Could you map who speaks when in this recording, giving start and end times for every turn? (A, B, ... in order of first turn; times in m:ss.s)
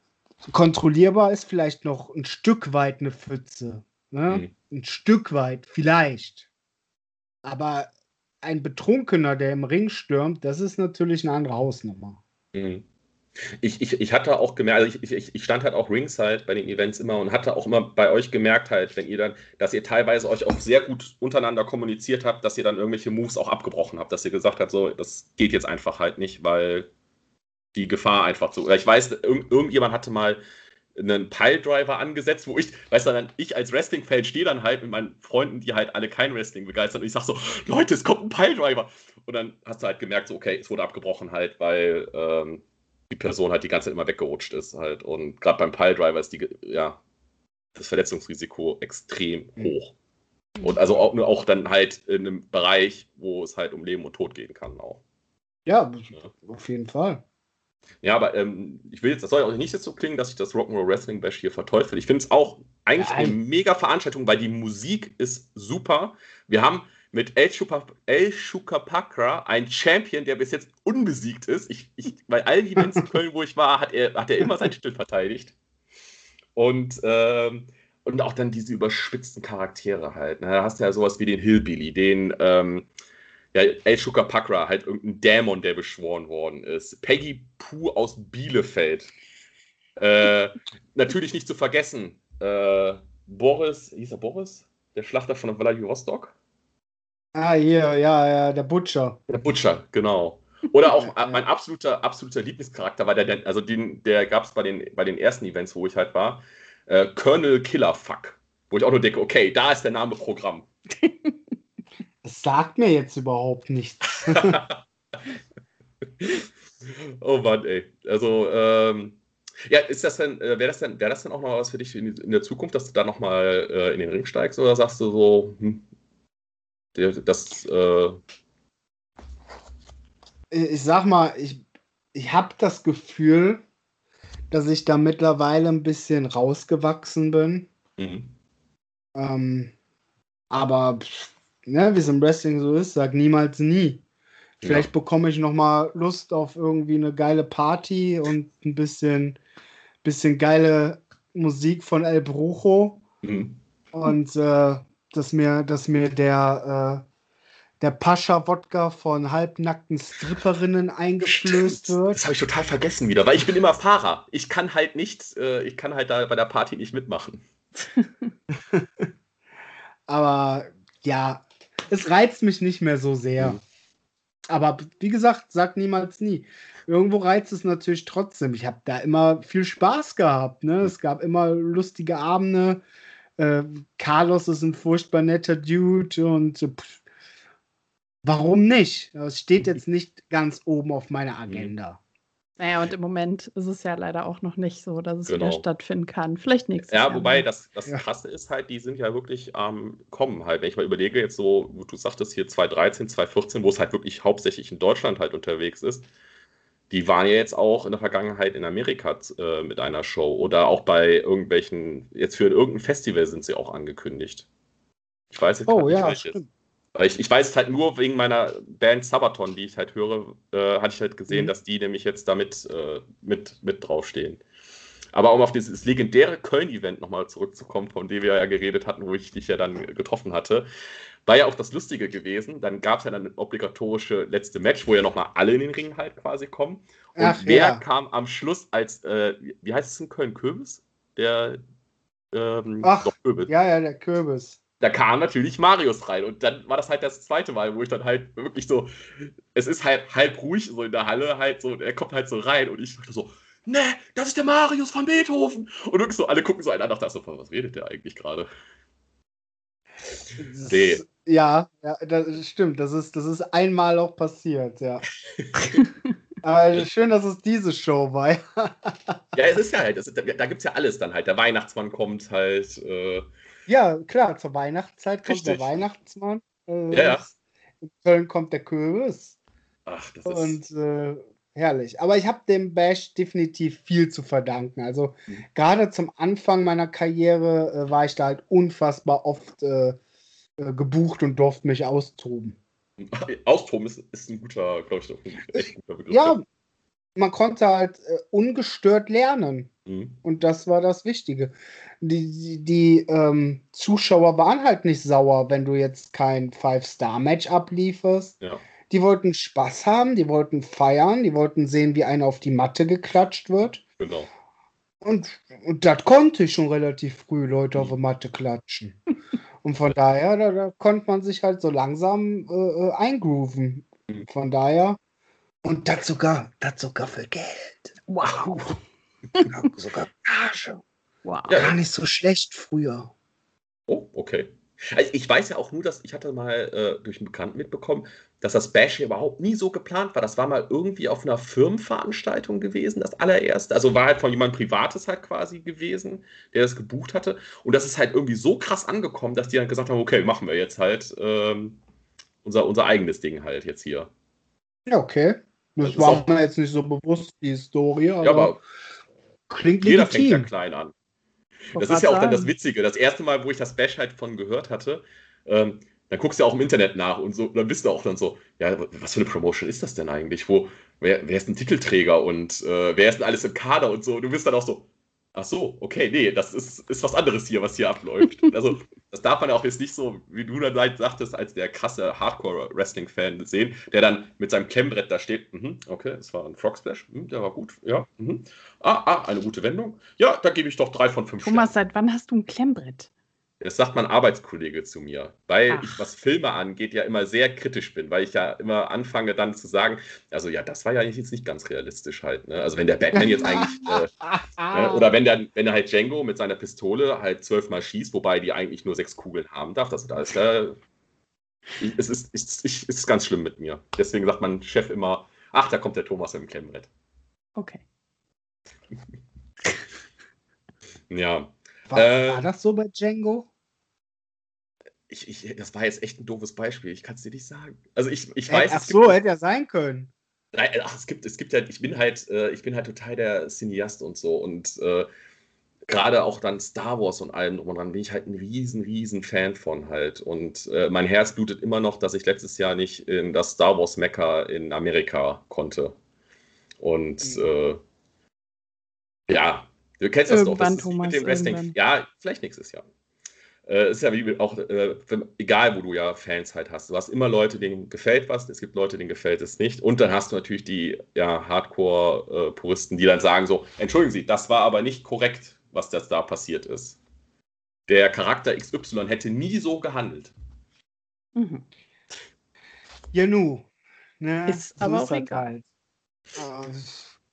0:00.5-0:06.5 A
0:07.4-0:07.9 A
0:08.4-0:12.2 A
0:12.5-0:12.8 B
0:13.5-0:26.9 B
0:27.7-0:30.4 B
0:30.9-0:47.0 B
0:47.7-0:49.9 B
0:50.6-0:55.0 B
0:55.6-0:57.2 A
0:58.0-1:15.5 B
1:02.9-1:03.4 A
1:16.6-1:22.9 B
1:23.5-1:29.1 B
1:30.0-1:36.3 B
1:37.3-1:39.2 A
1:39.3-1:50.7 B
1:40.9-1:41.4 A
1:51.0-1:51.3 C
1:52.2-1:54.6 A
1:54.3-1:54.8 B
1:56.2-2:05.8 B
2:06.9-2:08.2 B
2:10.5-2:11.6 A
2:12.1-2:13.6 A
2:14.5-2:17.7 A
2:18.0-2:18.3 B
2:19.1-2:19.7 A
2:20.5-2:24.0 A
2:24.6-2:24.9 B
2:24.6-2:29.4 A
2:30.0-2:33.0 A
2:33.2-2:33.6 B
2:33.9-2:37.0 A
2:37.8-2:42.2 A
2:41.2-2:47.4 B
2:48.0-2:48.3 C
2:48.7-2:49.1 A
2:50.1-2:53.6 A
2:54.5-3:02.8 A
3:03.4-3:07.0 A
3:08.2-3:12.0 A
3:11.5-3:11.7 B
3:12.6-3:17.5 C
3:15.3-3:15.6 B
3:16.9-3:26.1 B
3:26.9-3:34.5 B
3:35.3-3:36.4 B
3:35.7-3:36.5 A
3:36.9-3:44.4 B
3:45.1-3:50.6 B
3:51.2-4:01.6 B
3:57.2-3:57.8 A
4:02.3-4:03.5 B
4:02.8-4:04.6 A
4:04.8-4:18.5 B
4:20.4-4:25.0 A
4:20.6-4:21.0 B
4:26.4-4:29.2 A
4:29.3-4:33.2 B
4:33.7-4:39.4 A
4:35.2-4:35.8 B
4:36.9-4:37.2 B
4:39.8-4:40.6 B
4:40.2-4:50.0 A
4:50.6-4:52.6 A
4:53.0-4:56.4 B
4:56.1-4:56.4 A
4:57.2-4:59.7 A
4:59.8-5:00.2 B
5:00.2-5:08.3 A
5:08.9-5:13.8 A
5:14.0-5:14.3 B
5:15.0-5:19.0 A
5:19.6-5:25.0 A
5:25.6-5:28.5 A
5:28.1-5:28.8 B
5:29.5-5:30.8 A
5:31.2-5:31.5 C
5:31.5-5:31.8 B
5:31.5-5:33.1 A
5:33.9-5:51.8 B
5:52.4-5:54.1 B
5:54.9-5:58.6 A
5:55.8-5:56.2 B
5:58.2-5:58.6 B
5:59.5-6:00.5 A
5:59.8-6:00.9 B
6:01.7-6:31.7 B
6:01.8-6:02.5 C
6:31.4-6:33.1 C
6:33.6-6:44.1 B
6:35.7-6:36.0 C
6:43.1-6:45.1 A
6:44.7-6:50.8 B
6:51.8-6:56.9 B
6:57.6-6:57.8 C
7:01.1-7:02.5 B
7:01.9-7:03.5 A
7:05.1-7:09.2 B
7:08.5-7:10.1 A
7:10.5-7:15.1 B
7:15.9-7:26.0 B
7:26.8-7:27.8 B
7:29.3-7:32.8 B
7:30.3-7:31.7 C
7:33.6-7:47.0 B
7:47.9-7:50.3 B
7:51.4-7:51.6 C
7:53.1-7:53.7 A
7:54.2-7:55.6 A
7:54.5-7:55.4 C
7:56.4-7:57.1 A